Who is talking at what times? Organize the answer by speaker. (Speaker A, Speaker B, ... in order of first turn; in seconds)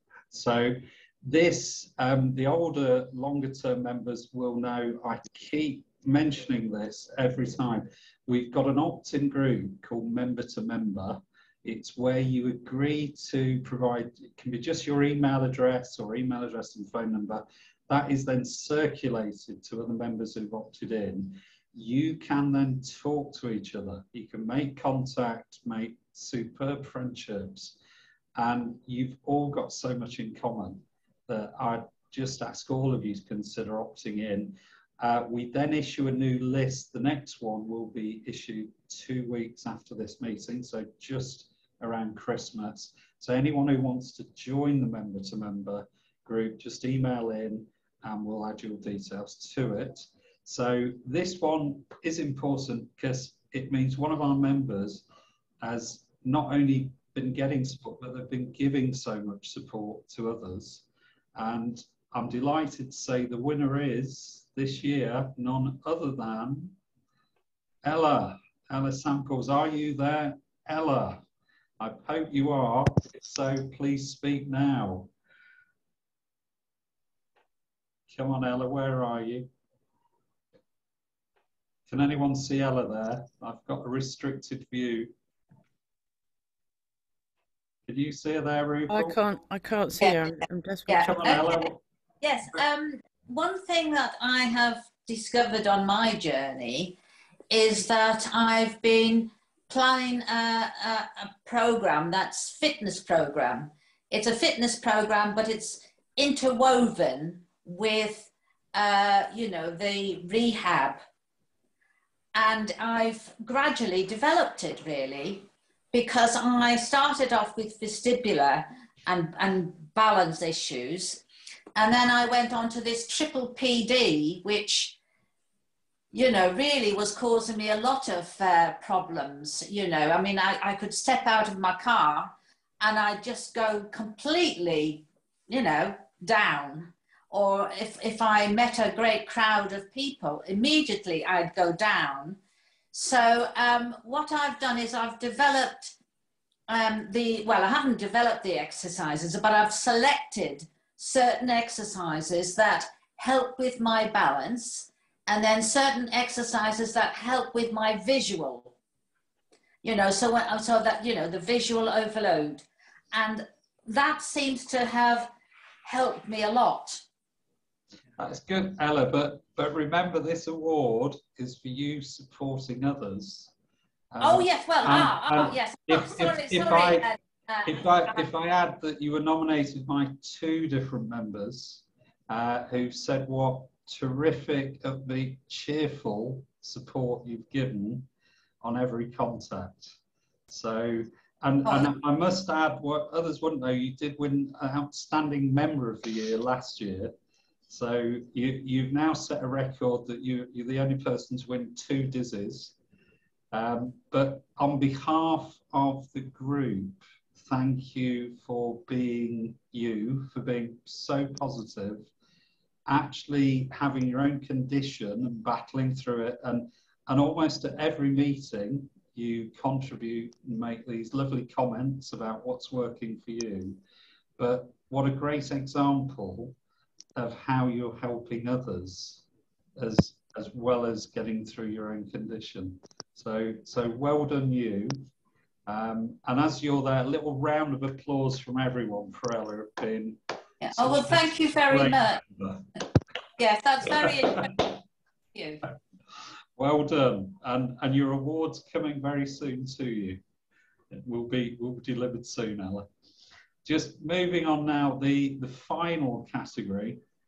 Speaker A: 0.3-27.8, 28.4-55.0, 55.6-66.8, 67.8-71.2, 71.8-75.1, 78.1-79.5, 81.9-85.1, 87.9-89.2, 91.0-91.8, 168.2-173.5, 174.1-177.1, 177.7-188.1, 188.6-189.9, 190.5-197.1, 197.7-202.8, 203.5-212.1, 212.9-223.8, 224.4-226.6, 227.1-229.2, 229.8-235.0, 235.7-242.7, 243.9-244.4, 246.6-250.2, 250.9-252.9, 253.6-257.0
Speaker B: 88.9-91.1
Speaker C: 90.0-91.7, 92.2-97.0, 97.5-111.0, 112.3-121.2, 121.8-124.9, 126.1-142.4, 142.9-145.9, 146.7-158.7, 159.8-165.3, 165.8-167.0, 174.2-178.2, 191.6-191.9, 240.6-242.2, 243.4-244.7, 245.3-245.6